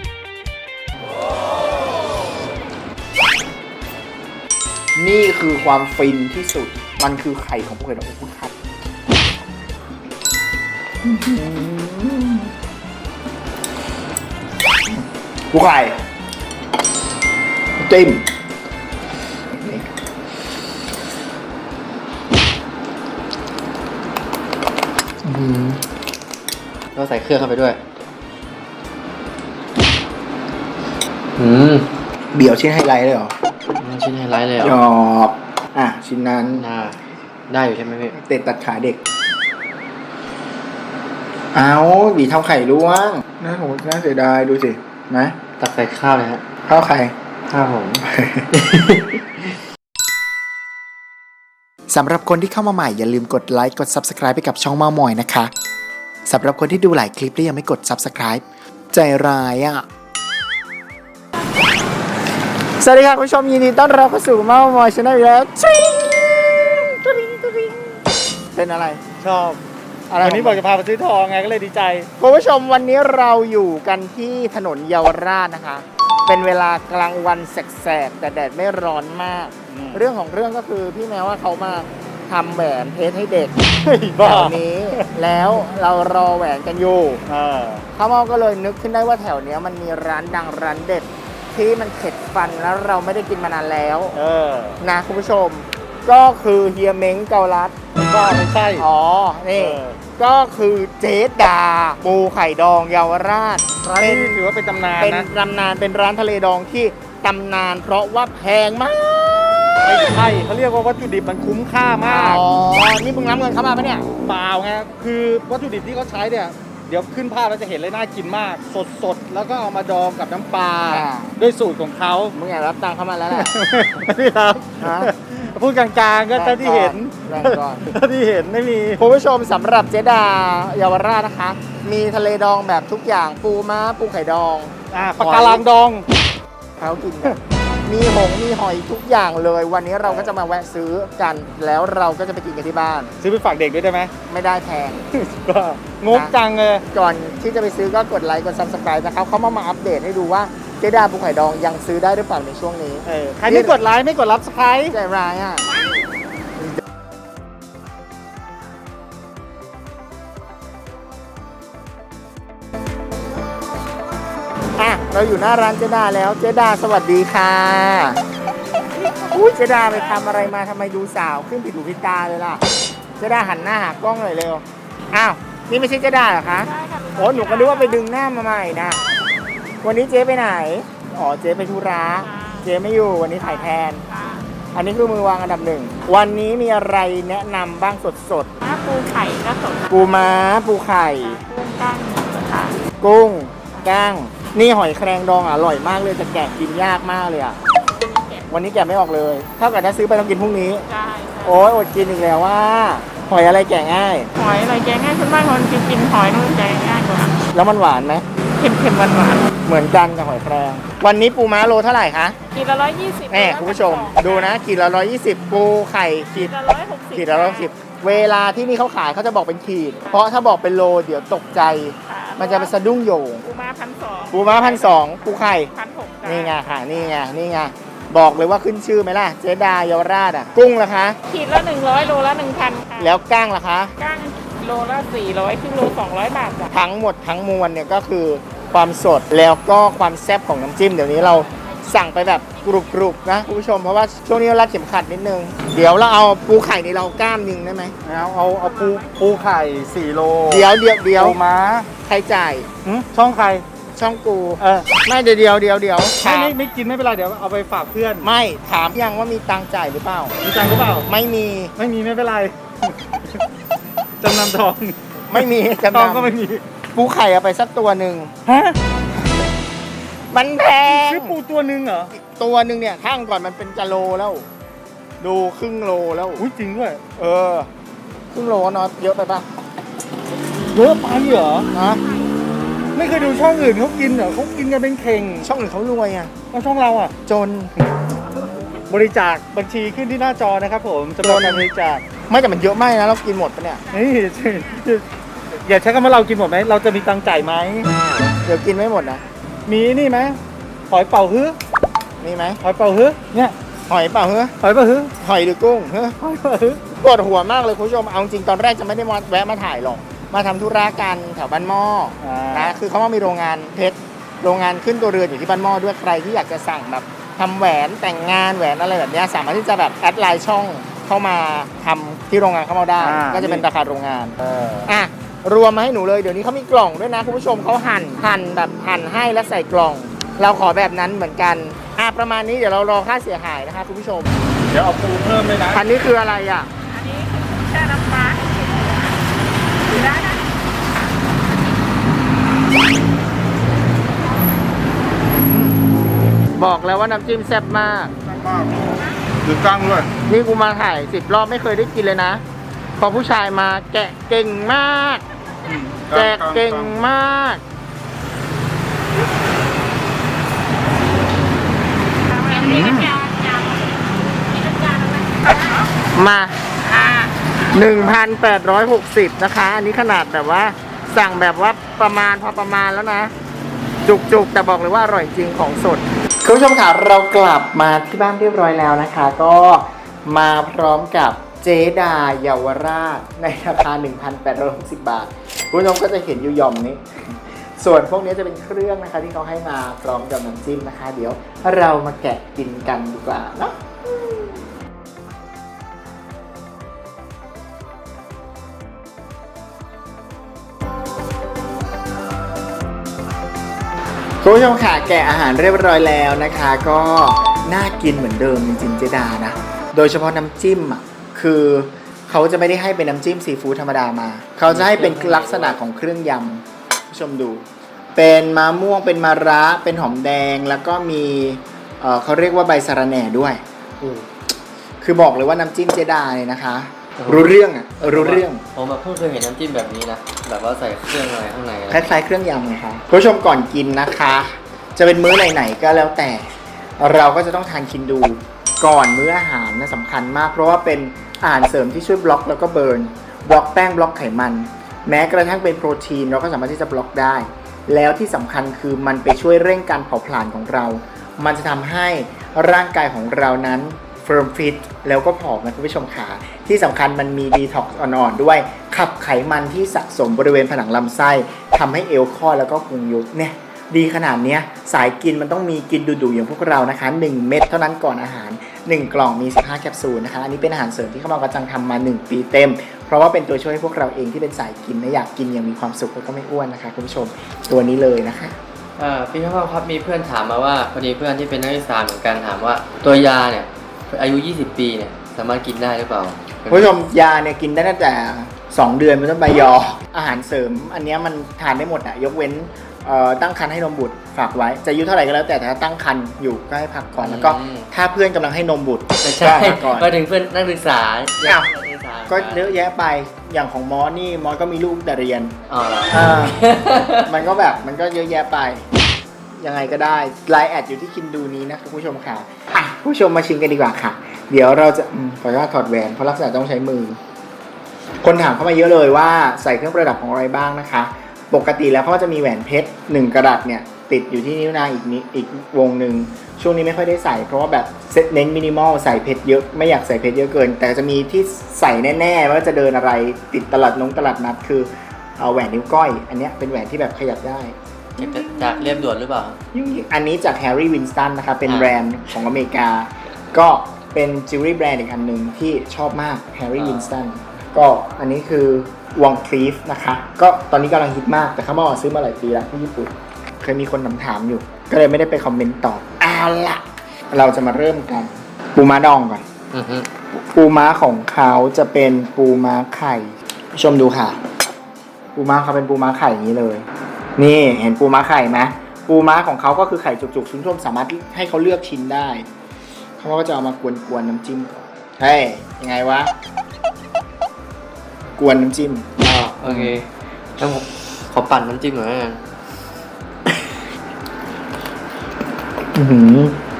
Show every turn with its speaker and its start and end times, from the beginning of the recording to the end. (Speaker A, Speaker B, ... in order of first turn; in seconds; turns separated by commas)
Speaker A: 5.0-8.5, Speaker A: 11.0-12.5, Speaker A: 14.9-16.0, Speaker A: 17.8-18.3, Speaker A: 19.5-19.9, Speaker A: 25.2-25.8, Speaker B: 26.9-27.8, Speaker B: 31.4-31.9, Speaker A: 32.3-33.3, Speaker B: 33.8-34.8, Speaker A: 34.6-36.6, Speaker B: 36.5-38.1, Speaker A: 38.1-39.0, Speaker A: 41.5-45.4, Speaker B: 45.6-46.4, Speaker A: 46.6-47.1, Speaker B: 47.5-49.5, Speaker A: 48.0-48.5, Speaker A: 51.9-55.5, Speaker A: 56.2-59.8, Speaker A: 62.8-68.0, Speaker A: 68.5-69.0, Speaker C: 69.2-69.6, Speaker A: 70.1-70.6, Speaker C: 70.2-72.1, Speaker A: 72.2-83.5, Speaker C: 79.7-80.1, Speaker C: 83.8-85.1, Speaker A: 84.2-87.2, Speaker C: 87.3-87.8, Speaker A: 88.0-94.2, Speaker C: 94.1-94.8, Speaker A: 94.8-98.2, Speaker C: 98.0-98.8, Speaker A: 98.8-104.4, Speaker C: 99.5-100.0, Speaker C: 103.8-105.3, Speaker A: 105.0-109.9, Speaker C: 109.8-112.4, Speaker A: 112.0-114.1, Speaker C: 114.2-122.3, Speaker A: 120.9-121.3, Speaker A: 122.3-123.5, Speaker C: 123.3-129.0, Speaker A: 124.8-125.1, Speaker A: 126.3-127.8, Speaker A: 129.0-135.6, Speaker C: 134.9-136.1, Speaker A: 136.8-143.1, Speaker C: 140.0-140.3, Speaker C: 143.2-144.1, Speaker A: 144.3-145.0, Speaker C: 145.1-146.8, Speaker A: 146.9-153.8, Speaker C: 153.1-154.9, Speaker A: 154.9-155.7, Speaker A: 164.8-168.2, Speaker A: 169.2-172.6, Speaker D: 169.9-170.3, Speaker A: 173.2-179.0, Speaker D: 176.6-178.0, Speaker D: 178.9-179.2, Speaker A: 179.8-184.0, Speaker D: 182.2-182.7, Speaker D: 183.4-184.4, Speaker A: 184.7-188.5, Speaker D: 188.6-192.8, Speaker A: 189.9-191.4, Speaker A: 193.0-197.6, Speaker D: 197.8-198.5, Speaker A: 198.5-200.8, Speaker D: 200.9-201.6, Speaker A: 201.4-204.3, Speaker D: 204.3-207.4, Speaker A: 207.5-208.2, Speaker D: 208.6-209.5, Speaker A: 209.6-212.4, Speaker D: 212.5-214.6, Speaker A: 213.3-216.5, Speaker D: 216.3-217.7, Speaker A: 217.1-223.4, Speaker D: 222.1-222.7, Speaker D: 223.4-225.0, Speaker A: 224.3-225.7, Speaker D: 225.7-227.1, Speaker A: 226.2-231.2, Speaker D: 231.3-233.2, Speaker A: 233.0-233.9, Speaker D: 234.0-236.7, Speaker A: 236.7-247.9, Speaker C: 248.0-251.9, Speaker D: 248.8-249.1, Speaker A: 250.5-251.3, Speaker A: 252.0-252.7, Speaker C: 252.8-253.6, Speaker A: 253.9-256.5, Speaker C: 254.6-254.9, Speaker C: 256.2-258.3, Speaker A: 258.2-260.3, Speaker C: 260.4-261.1, Speaker A: 261.1-261.7, Speaker C: 261.8-263.4, Speaker C: 264.2-265.4, Speaker A: 265.3-266.4, Speaker C: 265.9-266.6, Speaker A: 266.9-268.3, Speaker C: 268.4-268.8, Speaker A: 270.3-271.4, Speaker C: 270.8-272.1, Speaker A: 272.1-274.4, Speaker A: 275.2-276.4, Speaker C: 276.4-277.0, Speaker A: 277.1-277.7, Speaker A: 278.3-279.4, Speaker C: 280.7-281.7, Speaker A: 281.7-282.0, Speaker D: 281.8-282.3, Speaker C: 282.9-285.5, Speaker A: 285.4-286.3, Speaker C: 286.5-287.1, Speaker A: 287.2-287.7, Speaker C: 288.9-292.0, Speaker A: 291.2-291.6, Speaker A: 292.3-293.8, Speaker C: 293.9-295.0, Speaker C: 295.6-297.9, Speaker A: 298.4-299.2, Speaker C: 299.6-300.4, Speaker C: 300.9-301.6, Speaker A: 302.2-302.6, Speaker C: 302.6-303.5, Speaker A: 303.9-304.5, Speaker C: 304.6-305.1, Speaker A: 305.2-306.2, Speaker C: 306.2-306.8, Speaker A: 306.9-334.3, Speaker C: 312.2-312.8, Speaker C: 323.0-323.6, Speaker C: 324.4-324.9, Speaker C: 334.7-335.8, Speaker A: 335.7-336.7, Speaker D: 336.9-339.2, Speaker D: 339.8-340.5, Speaker A: 346.6-348.1, Speaker C: 348.2-350.1, Speaker A: 350.3-352.4, Speaker A: 353.0-355.2, Speaker C: 355.6-356.9, Speaker A: 356.1-357.6, Speaker D: 362.3-365.8, Speaker A: 362.6-363.1, Speaker A: 366.1-366.6, Speaker D: 367.0-367.3, Speaker A: 367.7-373.3, Speaker A: 374.0-394.5, Speaker A: 404.4-424.2, Speaker B: 414.7-415.8, Speaker A: 425.0-428.6, Speaker B: 427.2-432.0, Speaker A: 431.9-436.5, Speaker A: 437.0-478.6, Speaker B: 479.0-486.9, Speaker A: 486.7-500.1, Speaker B: 497.2-497.9, Speaker B: 499.2-502.7, Speaker A: 502.3-505.6, Speaker B: 505.7-507.4, Speaker A: 506.1-508.9, Speaker A: 509.6-517.2, Speaker A: 518.2-539.1, Speaker B: 538.2-539.6, Speaker A: 539.7-559.4, Speaker B: 541.6-541.9, Speaker B: 546.8-547.1, Speaker B: 559.7-560.1, Speaker A: 560.3-564.4, Speaker A: 565.3-566.9, Speaker A: 567.4-572.5, Speaker A: 573.2-576.3, Speaker A: 578.3-579.1, Speaker B: 579.2-582.4, Speaker A: 579.6-580.0, Speaker A: 585.9-586.6